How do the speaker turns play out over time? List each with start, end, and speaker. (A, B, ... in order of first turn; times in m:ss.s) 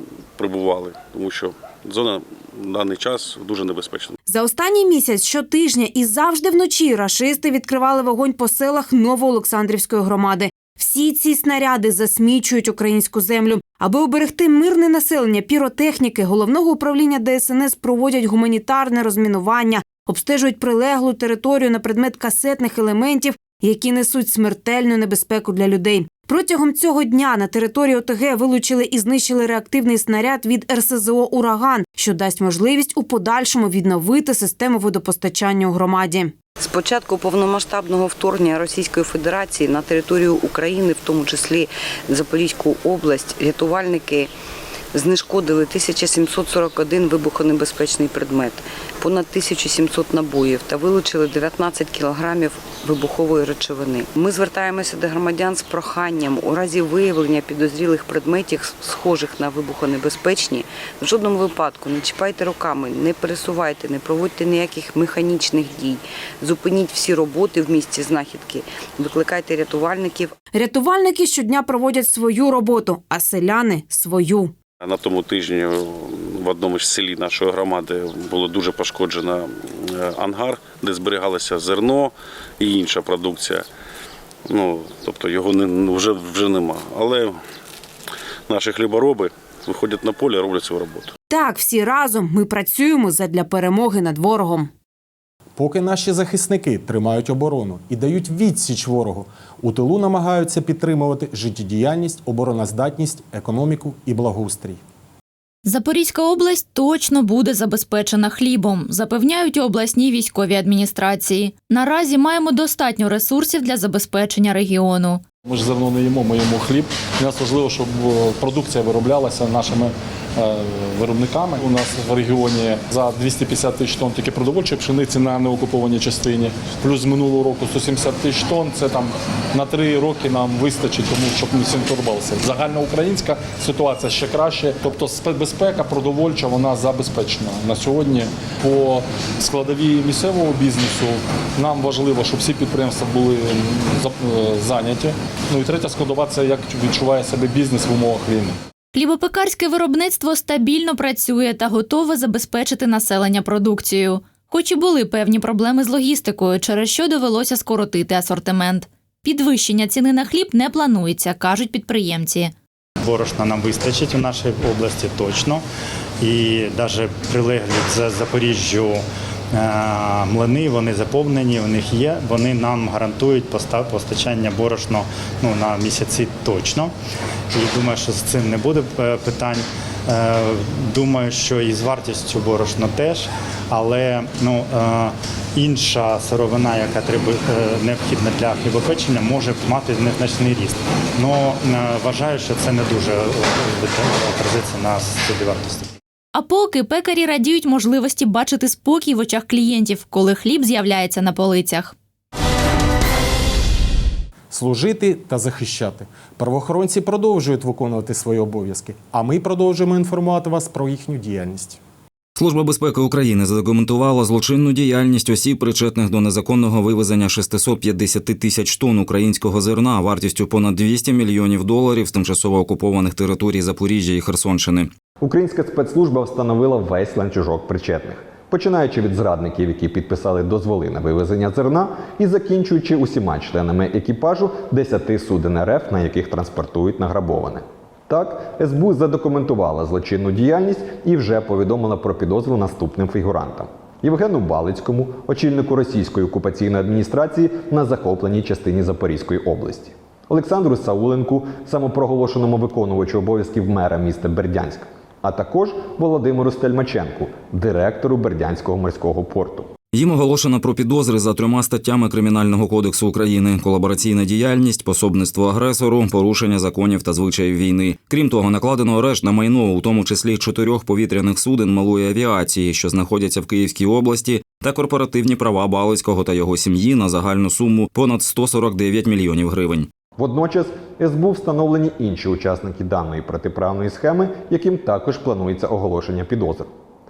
0:00.4-0:04.2 A
0:04.3-0:36.4 B
0:36.6-0:44.3 C
0:44.9-1:10.3 C
1:10.5-1:14.5 B
1:14.8-1:23.7 A
1:24.5-1:27.4 A
1:28.5-1:31.1 A
1:31.3-1:34.7 B
1:35.6-1:44.8 D
1:45.6-1:55.2 E
1:55.4-2:28.6 F
2:29.0-2:42.5 E
2:43.0-2:45.6 G
2:46.2-2:56.9 G
2:57.5-3:15.9 G
3:16.3-3:21.9 E
3:24.5-3:31.8 D
3:32.4-3:44.9 H
3:45.2-4:19.7 I
4:19.9-4:39.9 H
4:40.2-4:46.7 I